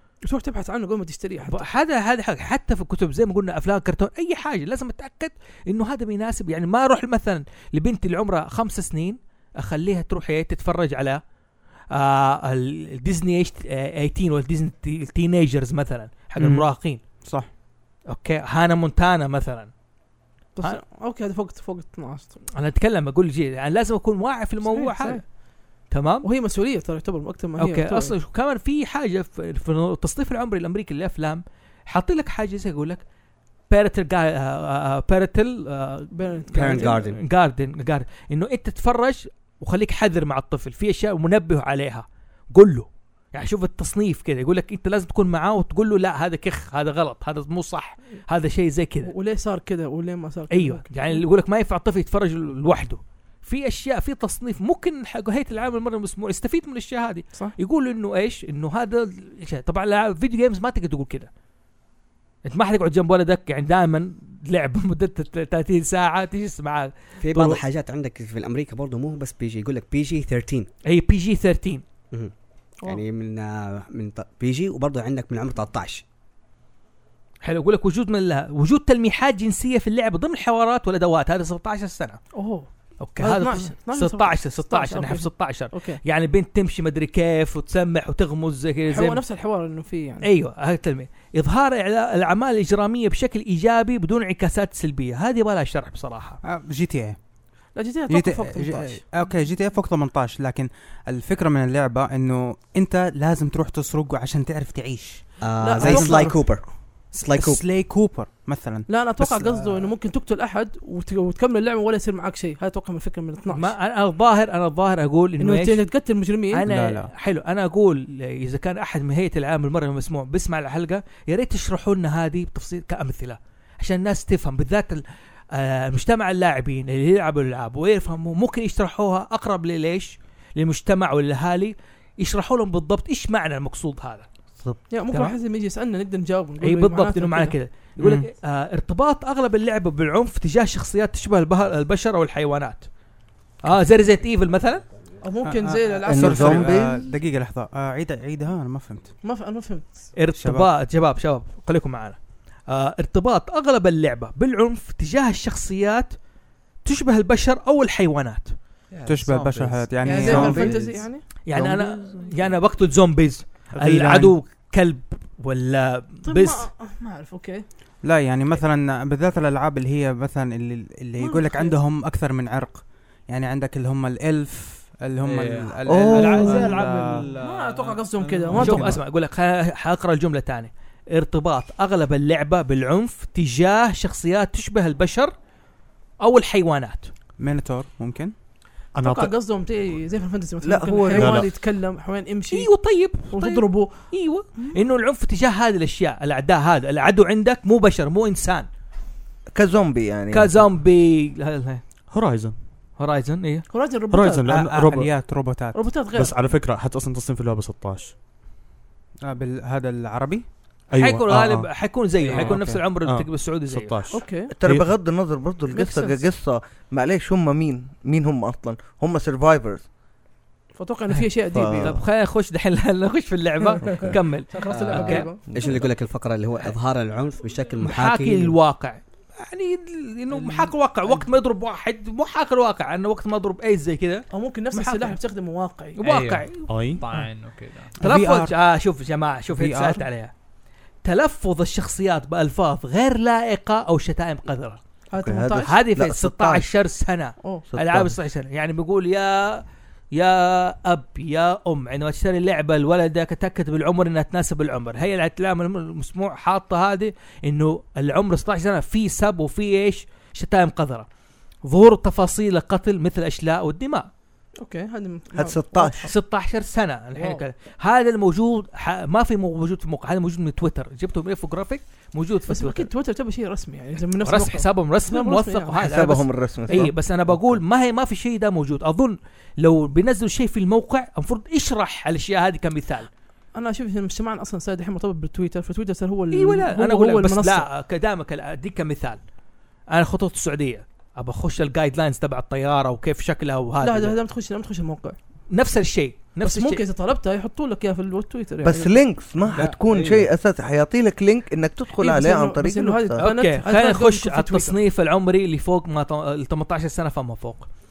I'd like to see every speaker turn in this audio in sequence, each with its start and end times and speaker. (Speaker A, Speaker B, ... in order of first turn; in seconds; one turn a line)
Speaker A: 0.2-1.7
Speaker B: 1.4-11.2
Speaker B: 11.9-17.0
Speaker C: 16.4-16.7
Speaker C: 17.2-17.5
Speaker B: 18.1-19.7
Speaker A: 20.6-22.4
Speaker B: 22.5-25.2
Speaker A: 24.6-25.2
Speaker B: 25.9-26.3
Speaker A: 26.2-28.1
Speaker B: 27.6-33.0
Speaker B: 33.7-49.1
Speaker A: 36.1-37.0
Speaker D: 36.5-37.2
Speaker A: 49.0-51.2
Speaker B: 50.5-61.3
Speaker B: 62.5-67.6
Speaker D: 67.2-70.7
Speaker B: 70.8-71.8
Speaker D: 72.8-76.0
Speaker B: 77.4-82.2
Speaker A: 82.3-82.7
Speaker B: 83.0-89.2
Speaker A: 83.2-86.0
Speaker A: 88.9-90.3
Speaker B: 90.2-96.4
Speaker C: 96.4-97.2
Speaker A: 97.7-99.0
Speaker C: 98.1-106.4
Speaker D: 105.4-107.6
Speaker A: 105.6-106.4
Speaker C: 107.3-109.7
Speaker A: 108.9-113.7
Speaker B: 113.5-115.8
Speaker A: 115.4-116.7
Speaker B: 116.5-125.0
Speaker C: 116.7-117.1
Speaker B: 125.5-134.2
Speaker A: 134.9-137.6
Speaker B: 135.1-135.3
Speaker B: 136.6-142.9
Speaker C: 138.0-138.2
Speaker B: 143.6-144.8
Speaker A: 145.2-146.7
Speaker C: 145.4-149.1
Speaker E: 146.1-147.1
Speaker A: 149.2-150.1
Speaker B: 150.2-152.2
Speaker C: 150.4-150.7
Speaker B: 152.7-156.1
Speaker B: 156.8-158.5
Speaker F: 158.9-160.9
Speaker C: 159.1-160.8
Speaker A: 160.0-161.2
Speaker E: 160.2-161.0
Speaker B: 161.4-166.7
Speaker E: 161.5-162.4
Speaker C: 163.7-164.3
Speaker A: 166.2-167.6
Speaker C: 168.0-177.3
Speaker A: 171.2-171.8
Speaker F: 175.2-179.0
Speaker E: 175.9-176.7
Speaker B: 176.2-177.1
Speaker A: 177.4-179.0
Speaker B: 178.6-185.3
Speaker B: 186.2-187.1
Speaker C: 187.4-188.3
Speaker G: 188.9-189.3
Speaker A: 189.0-192.7
Speaker E: 190.6-191.5
Speaker G: 191.2-191.5
Speaker B: 192.5-198.7
Speaker A: 193.3-194.0
Speaker E: 199.5-200.7
Speaker B: 200.3-201.8
Speaker G: 202.1-202.5
Speaker B: 203.0-203.6
Speaker A: 203.7-204.5
Speaker G: 204.1-205.1
Speaker C: 204.5-205.8
Speaker A: 205.7-206.3
Speaker G: 206.1-208.1
Speaker C: 209.2-210.4
Speaker G: 210.9-211.7
Speaker B: 210.9-214.0
Speaker F: 212.2-212.6
Speaker C: 212.3-212.8
Speaker G: 212.4-214.9
Speaker A: 214.1-214.5
Speaker E: 214.5-219.8
Speaker A: 215.7-216.2
Speaker A: 220.7-222.0
Speaker B: 221.1-225.3
Speaker E: 221.5-222.0
Speaker A: 223.6-225.5
Speaker D: 224.7-228.5
Speaker E: 225.5-225.8
Speaker B: 227.8-235.2
Speaker A: 234.3-236.0
Speaker B: 236.0-237.2
Speaker F: 236.0-238.0
Speaker G: 236.7-237.0
Speaker B: 238.0-240.3
Speaker C: 238.0-238.5
Speaker C: 239.5-240.0
Speaker B: 241.0-244.8
Speaker A: 245.1-245.8
Speaker E: 245.1-246.8
Speaker B: 245.6-261.1
Speaker E: 247.7-248.1
Speaker B: 261.6-264.1
Speaker A: 264.6-266.1
Speaker E: 265.3-266.1
Speaker B: 266.0-272.9
Speaker A: 267.1-267.4
Speaker A: 272.5-276.1
Speaker B: 274.2-283.1
Speaker E: 275.8-276.9
Speaker A: 283.5-287.7
Speaker B: 286.3-289.2
Speaker B: 289.9-294.1
Speaker A: 293.8-295.1
Speaker B: 295.5-296.8
Speaker A: 296.4-298.9
Speaker E: 298.6-303.2
Speaker F: 299.5-300.3
Speaker A: 302.0-304.8
Speaker B: 303.2-307.7